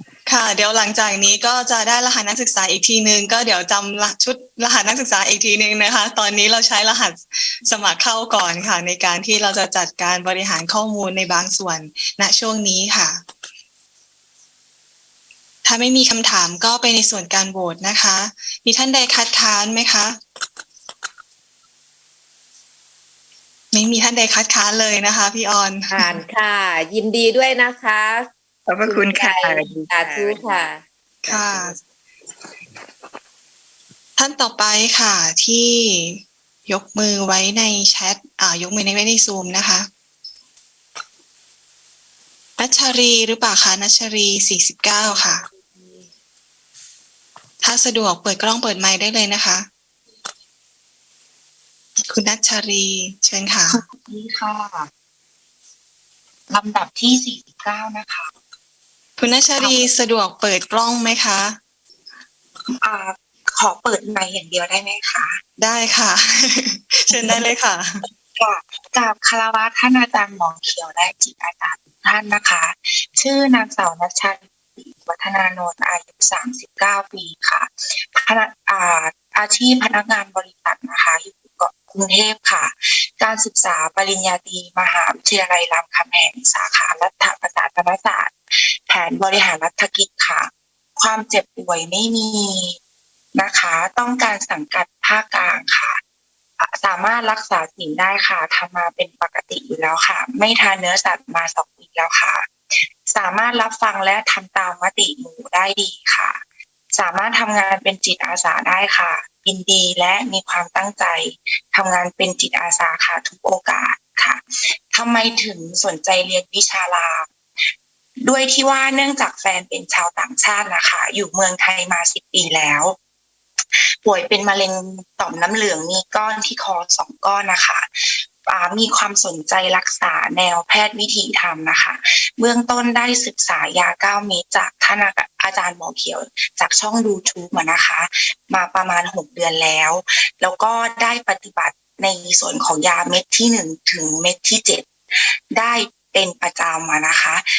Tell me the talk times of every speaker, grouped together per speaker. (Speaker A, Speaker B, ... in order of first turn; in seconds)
Speaker A: 0.3-13.2, 15.6-20.2, 23.7-26.2, 31.2-31.8, 34.2-39.9, 42.6-45.4, 47.6-49.7, 52.1-53.8, 59.2-61.6, 65.6-68.0
Speaker B: 25.9-28.3, 28.8-30.8, 31.4-31.7, 45.0-46.0
Speaker C: 28.7-30.6
Speaker D: 53.7-54.9, 56.5-58.3, 59.6-59.9, 62.8-65.4, 68.4-88.3, 88.9-92.8, 93.3-96.0, 96.6-102.5, 103.1-106.4, 106.9-114.4, 114.9-117.3, 118.2-123.0, 124.0-127.8, 128.4-144.9, 145.5-147.4